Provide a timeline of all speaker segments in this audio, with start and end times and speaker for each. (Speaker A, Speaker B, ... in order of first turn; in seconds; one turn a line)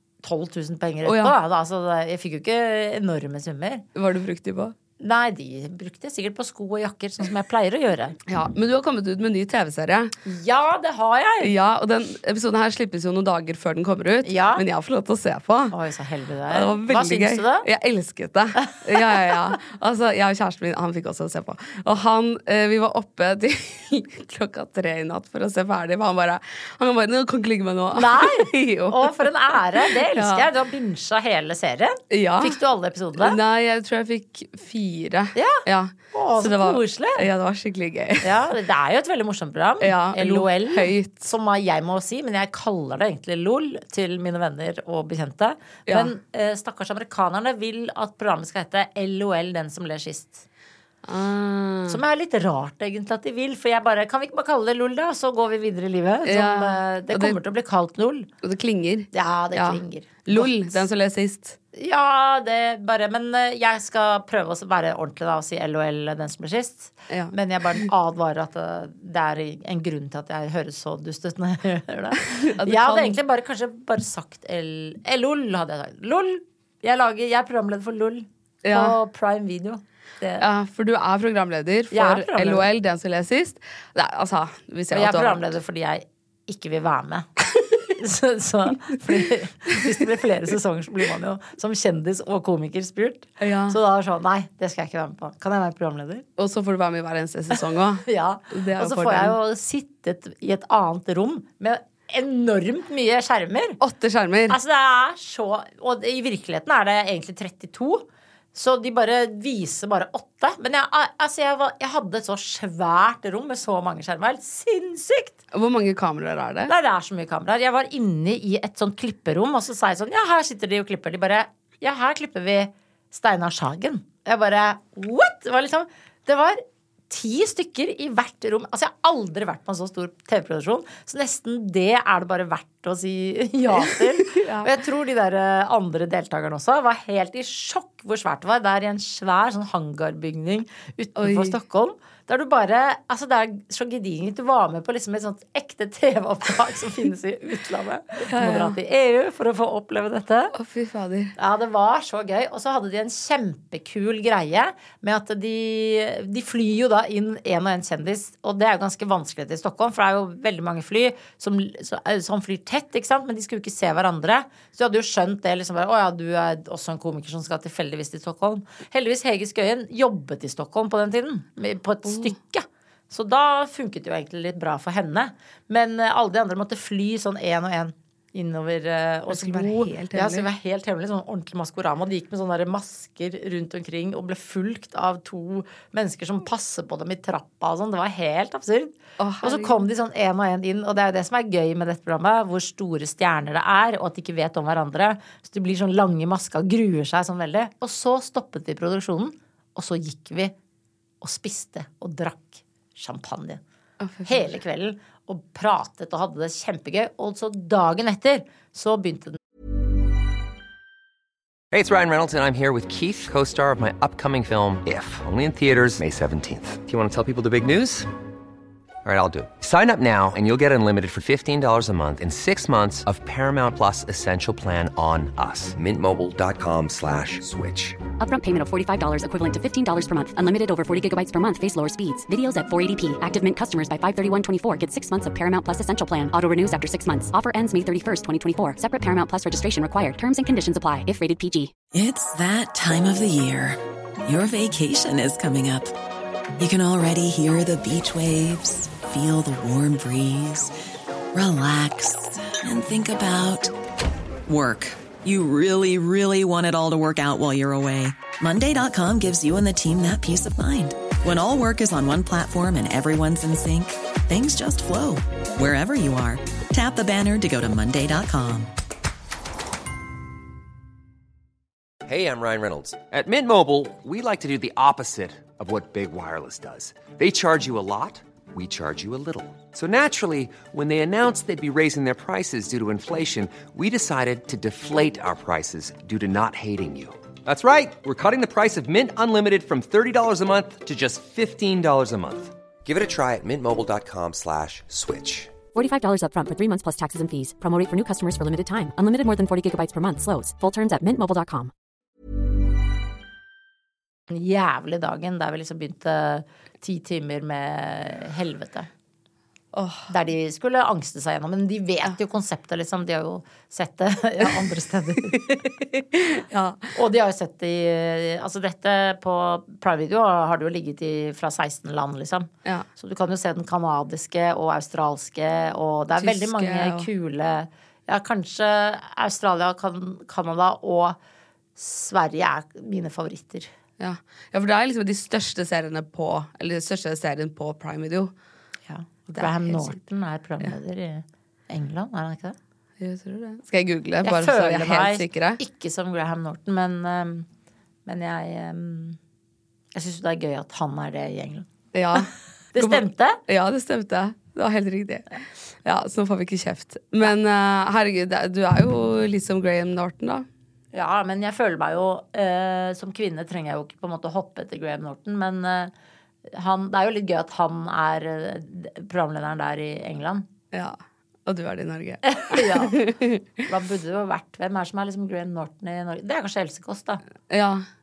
Speaker A: 0.2-3.8
Speaker B: 1.1-1.3
Speaker B: 3.9-4.7
Speaker A: 5.0-8.2
Speaker B: 8.3-10.1
Speaker A: 10.2-11.5
Speaker B: 11.4-15.7
Speaker A: 14.2-14.6
Speaker A: 15.7-17.6
Speaker B: 16.5-30.5
Speaker A: 27.9-33.4
Speaker B: 32.1-32.6
Speaker B: 33.2-38.5
Speaker A: 35.3-37.2
Speaker A: 38.2-50.4
Speaker B: 39.8-41.3
Speaker B: 45.9-46.1
Speaker B: 51.0-52.0
Speaker A: 51.9-58.3
Speaker B: 56.2-57.4
Speaker B: 58.4-61.6
Speaker A: 59.1-60.8
Speaker A: 61.7-80.4
Speaker B: 67.1-67.8
Speaker B: 72.2-73.2
Speaker B: 78.6-79.0
Speaker B: 80.4-85.5
Speaker A: 81.9-82.7
Speaker A: 84.9-87.4
Speaker A: 87.9-96.2
Speaker B: 93.4-93.8
Speaker B: 96.4-99.3
Speaker A: 97.5-103.8
Speaker B: 103.8-104.6
Speaker A: 104.5-115.4
Speaker B: 115.5-116.7
Speaker A: 116.7-150.5
Speaker B: 134.2-134.7
Speaker B: 141.2-141.6
Speaker B: 148.3-148.8
Speaker B: 150.5-151.3
Speaker A: 151.4-200.5
Speaker B: 179.3-180.5
Speaker B: 189.2-189.8
Speaker A: 201.2-203.6
Speaker B: 204.0-204.5
Speaker A: 204.2-209.4
Speaker C: 211.7-218.1
Speaker C: 219.0-228.0
Speaker D: 228.2-241.7
Speaker E: 241.9-245.9
Speaker E: 246.6-250.7
Speaker E: 251.3-253.7
Speaker E: 254.5-268.7
Speaker C: 272.1-295.5
Speaker D: 295.7-301.7
Speaker A: 304.3-308.9
Speaker B: 309.7-310.1
Speaker A: 310.1-315.7
Speaker B: 316.1-316.9
Speaker A: 316.9-331.2
Speaker B: 326.2-327.1
Speaker A: 331.8-333.7
Speaker B: 334.0-338.3
Speaker A: 338.9-342.6
Speaker B: 339.4-340.0
Speaker B: 343.0-345.6
Speaker A: 344.2-347.5
Speaker A: 348.1-349.2
Speaker A: 349.9-352.2
Speaker B: 351.9-360.4
Speaker A: 352.7-353.4
Speaker A: 360.9-365.9
Speaker A: 366.5-370.5
Speaker B: 370.7-373.4
Speaker A: 372.3-373.0
Speaker A: 373.6-377.2
Speaker B: 377.5-377.8